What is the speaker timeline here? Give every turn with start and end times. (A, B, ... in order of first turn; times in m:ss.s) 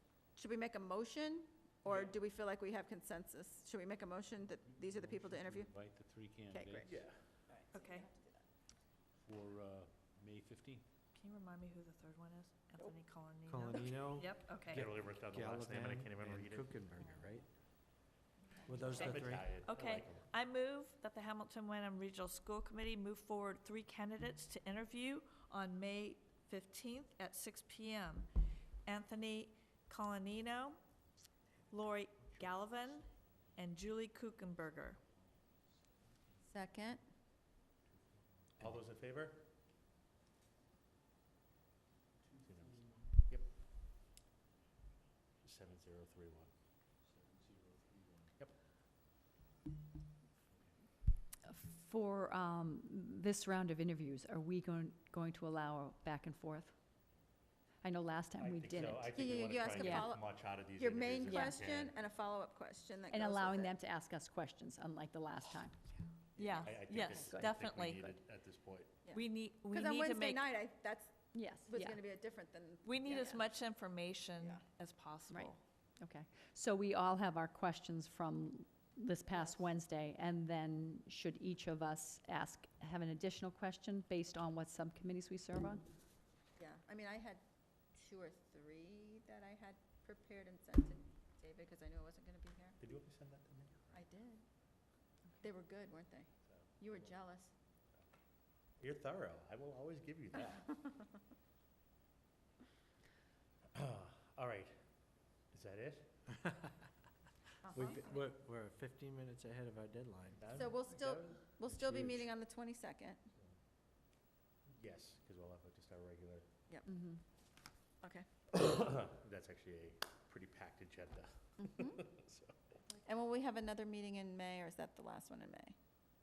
0:00.4-0:05.8 A
0:04.6-0:07.5 B
0:06.5-0:08.4 A
0:06.8-0:07.2 C
0:07.7-0:08.1 D
0:09.2-0:10.8 B
0:11.1-0:14.9 D
0:13.5-0:17.5 E
0:14.7-0:16.8 C
0:18.7-0:19.6 E
0:18.8-0:19.1 A
0:18.8-0:28.3 D
0:18.9-0:20.3 C
0:28.8-0:30.8 D
0:31.7-0:35.0 D
0:36.5-0:37.0 A
0:37.9-0:38.7 B
0:38.6-0:39.5 C
0:42.2-0:43.2 B
0:42.4-0:43.5 C
0:45.4-0:46.5 C
0:47.0-0:48.4 B
0:51.5-0:56.8 F
0:57.8-1:00.1 F
0:58.4-1:02.0 C
0:59.2-1:00.2 A
1:00.8-1:03.8 A
1:01.3-1:01.6 F
1:03.1-1:05.8 F
1:06.4-1:07.6 F
1:06.4-1:09.0 C
1:06.4-1:08.1 D
1:09.0-1:11.1 A
1:09.1-1:10.5 D
1:11.3-1:12.0 F
1:11.6-1:13.4 A
1:12.8-1:15.6 D
1:14.4-1:14.6 A
1:15.3-1:25.8 F
1:26.6-1:27.4 A
1:27.9-1:32.8 A
1:32.8-1:34.0 C
1:33.9-1:34.4 A
1:35.4-1:36.3 A
1:36.8-1:37.5 A
1:38.8-1:40.7 C
1:43.7-1:44.8 C
1:45.5-1:46.2 C
1:47.6-1:48.2 A
1:47.7-1:50.6 E
1:50.4-1:52.3 C
1:50.5-1:53.2 A
1:51.7-1:52.3 E
1:54.7-1:56.4 C
1:56.8-1:57.2 F
1:58.5-2:02.6 C
2:01.6-2:02.0 A
2:03.0-2:05.8 A